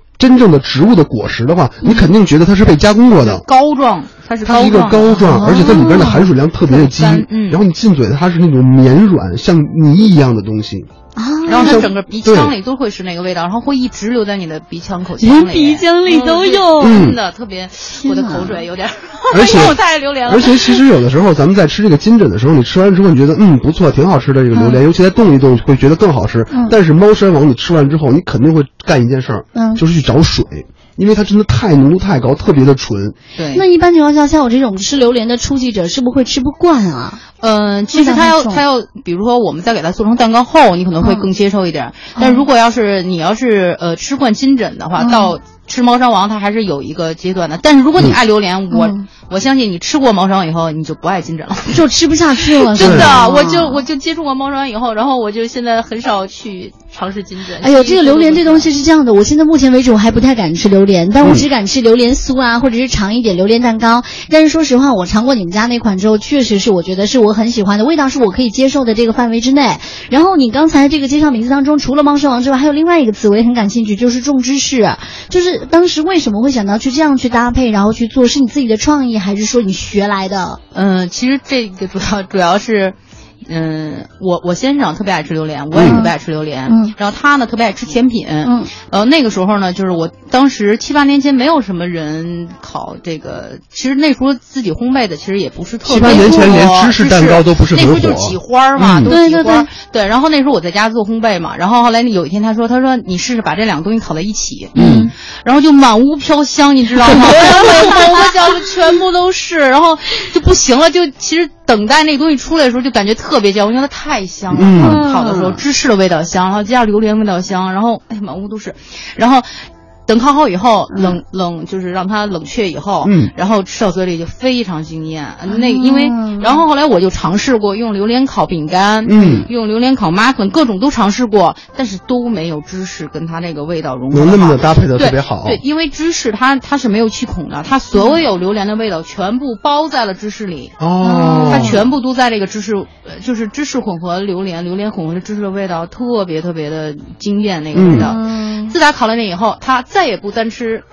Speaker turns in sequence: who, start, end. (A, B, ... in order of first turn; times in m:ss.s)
0:00.2-0:03.4 A
0:03.1-0:06.1 B
0:04.4-0:10.9 A
0:05.3-0:06.3 C
0:06.6-0:07.6 B
0:11.2-0:11.8 C
0:11.4-0:20.8 B
0:11.6-0:12.5 A
0:15.2-0:17.0 C
0:16.8-0:17.2 A
0:18.0-0:18.6 C
0:19.3-0:33.1 A
0:24.5-0:24.8 C
0:29.5-0:29.8 C
0:33.4-0:33.6 B
0:33.5-0:37.2 C
0:37.4-0:51.8 B
0:37.9-0:38.6 C
0:41.0-0:41.3 C
0:42.2-0:42.4 C
0:45.0-0:45.3 C
0:48.7-0:49.0 C
0:51.7-0:53.8 C
0:52.4-0:58.7 B
0:52.8-0:53.2 A
0:57.6-1:20.6 C
1:20.7-2:20.7 B
1:25.7-1:26.0 A
1:25.8-1:26.1 C
1:26.6-1:26.9 C
1:28.4-1:28.7 C
1:35.8-1:39.1 A
1:36.0-1:36.4 C
1:39.1-1:39.7 C
1:44.7-1:45.1 C
1:44.8-1:45.1 A
1:47.0-1:48.3 C
1:54.5-1:55.0 A
1:54.8-1:55.6 C
2:00.9-2:01.2 C
2:03.0-2:03.3 A
2:05.5-2:06.6 C
2:09.0-2:09.5 A
2:14.1-2:15.6 A
2:20.8-2:21.9 A
2:21.0-2:21.8 C
2:21.5-2:30.8 B
2:27.7-2:28.1 A
2:27.8-2:28.7 C